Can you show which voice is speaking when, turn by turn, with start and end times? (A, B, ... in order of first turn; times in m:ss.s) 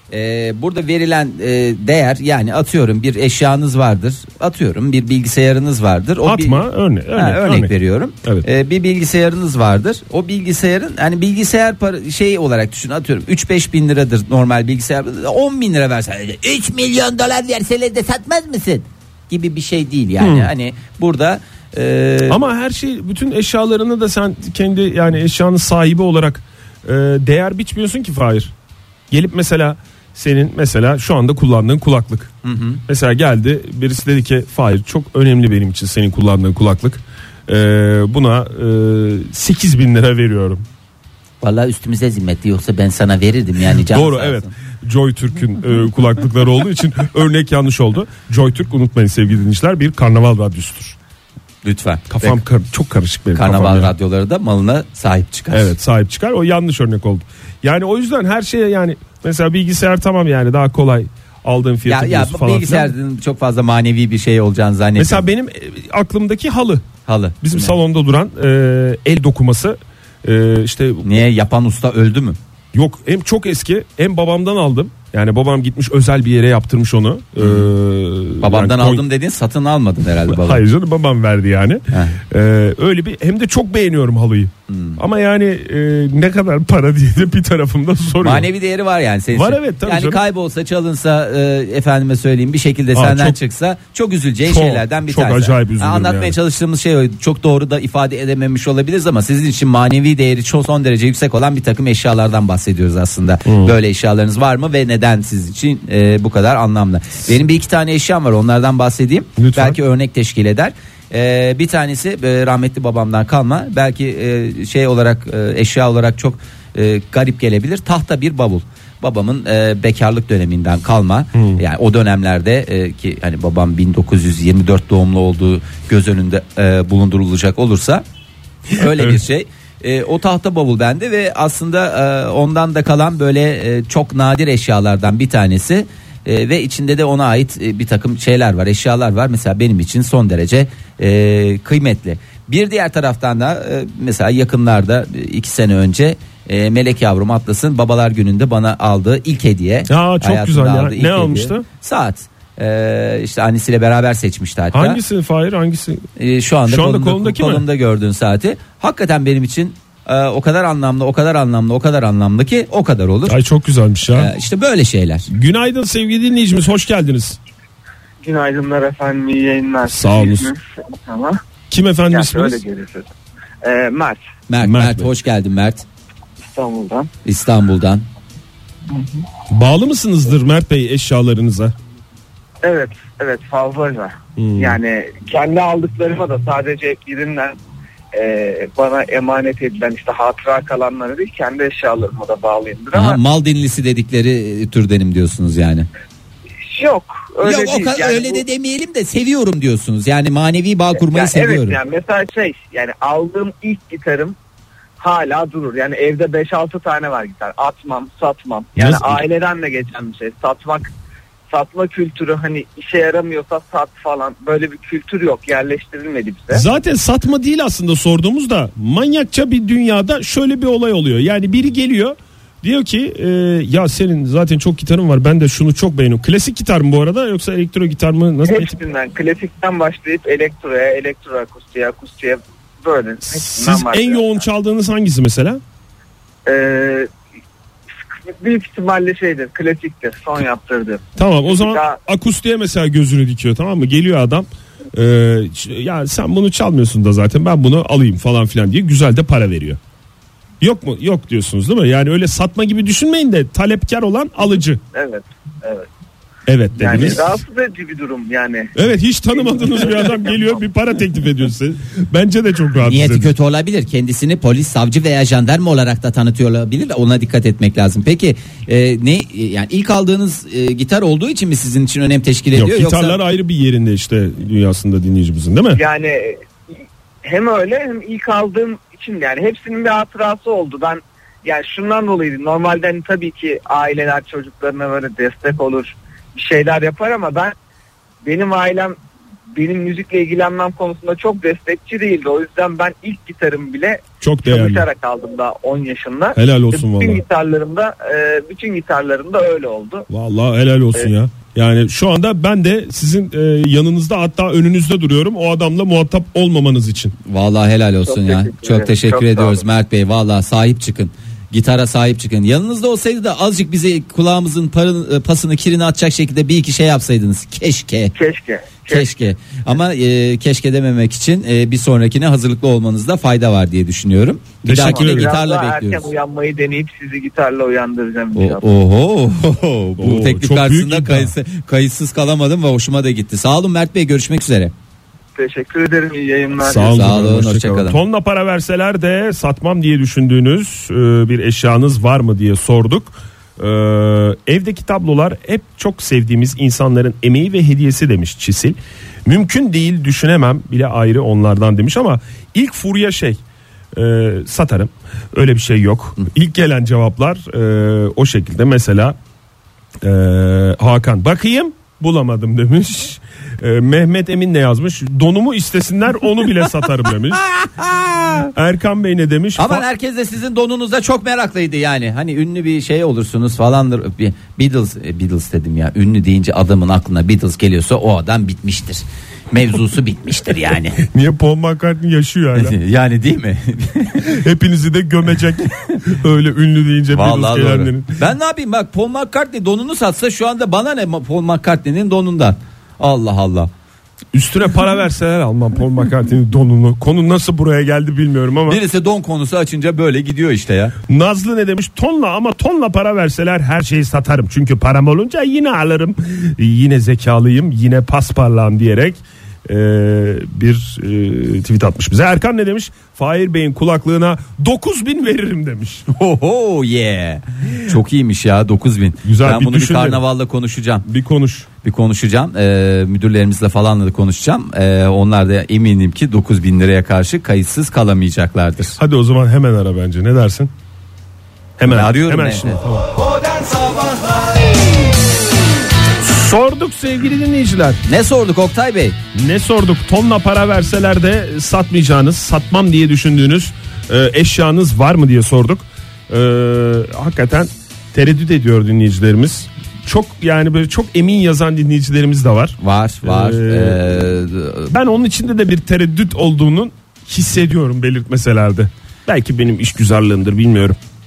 0:00.1-0:22.4 A
0:06.2-0:07.7 B
0:20.2-0:20.5 B
0:22.3-0:28.5 B
0:29.1-0:32.3 B
0:32.4-0:32.8 A
0:32.9-0:40.6 B
0:41.4-0:44.5 A
0:43.8-0:51.0 B
0:51.6-0:52.4 A
0:52.1-0:53.9 B
0:53.3-0:55.7 A
0:55.5-1:02.9 B
1:01.8-1:05.2 A
1:05.0-1:06.9 B
1:07.0-1:07.8 A
1:07.4-1:11.0 B
1:11.0-1:12.4 A
1:12.7-1:19.0 B
1:17.4-1:17.7 A
1:18.4-1:20.6 A
1:20.2-1:28.5 B
1:21.9-1:22.2 A
1:24.7-1:25.0 A
1:28.2-2:08.0 A
1:29.3-1:30.2 B
1:32.9-1:33.4 B
1:34.5-1:36.4 B
1:43.4-1:43.7 B
1:49.4-1:49.8 B
2:01.3-2:01.6 B
2:08.7-2:35.0 A
2:08.8-2:09.2 B
2:29.9-2:31.6 B
2:34.7-2:36.1 B
2:36.2-2:43.4 A
2:36.7-2:37.6 B
2:43.3-2:44.3 B
2:44.1-2:45.3 A
2:45.3-2:47.4 B
2:48.2-2:51.4 C
2:49.9-2:50.5 B
2:51.7-2:52.6 B
2:52.1-2:53.1 C
2:53.6-2:54.2 C
2:54.5-2:55.8 A
2:54.6-2:55.1 B
2:56.4-2:57.1 C
2:57.2-2:58.0 A
2:58.9-2:59.2 C
2:59.5-3:01.7 B
3:02.6-3:07.5 C
3:04.4-3:04.8 B
3:08.1-3:13.2 C
3:12.9-3:15.9 A
3:16.7-3:18.4 C
3:17.4-3:21.8 A
3:20.9-3:24.4 C
3:25.0-3:30.9 C
3:28.8-3:29.2 B
3:31.5-3:36.6 C
3:36.5-3:48.8 B
3:48.4-3:54.3 C
3:53.2-3:55.6 B
3:56.4-3:57.1 C
3:58.1-4:02.0 C
4:01.2-4:09.8 B
4:10.6-4:14.8 B
4:14.9-4:15.9 C
4:16.5-4:17.4 B
4:16.8-4:18.8 C
4:18.7-4:23.3 B
4:19.3-4:20.5 C
4:22.8-4:33.2 A
4:32.5-4:35.8 B
4:35.7-4:36.4 C
4:37.2-4:47.5 C
4:48.2-4:49.0 C
4:49.5-5:00.1 C
4:54.2-4:54.9 B
4:56.3-4:57.2 B
5:00.1-5:07.1 B
5:07.2-5:18.1 A
5:08.1-5:09.6 C
5:18.1-5:19.1 C
5:18.9-5:26.0 A
5:24.6-5:25.3 B
5:24.8-5:28.7 C
5:28.3-5:34.7 A
5:30.0-5:31.3 B
5:35.3-5:37.1 C
5:36.6-5:53.4 B
5:36.8-5:38.0 A
5:53.9-5:59.2 B
6:00.0-6:07.4 B
6:07.4-6:08.5 A
6:08.5-6:09.8 B
6:09.6-6:21.0 A
6:21.0-6:22.8 B
6:22.5-6:24.4 A
6:24.2-6:28.2 B
6:27.1-6:33.7 A
6:34.3-6:38.8 B
6:38.7-6:40.9 A
6:41.1-6:56.0 B
6:56.1-7:01.0 A
6:59.2-7:00.2 B
7:01.0-7:01.7 B
7:01.8-7:09.0 A
7:09.0-7:10.7 B
7:11.8-7:13.1 B
7:11.8-7:12.8 A
7:13.3-7:14.6 A
7:16.2-7:18.0 B
7:18.0-7:19.2 A
7:19.3-7:34.3 B
7:32.8-7:34.9 A
7:34.9-7:41.0 B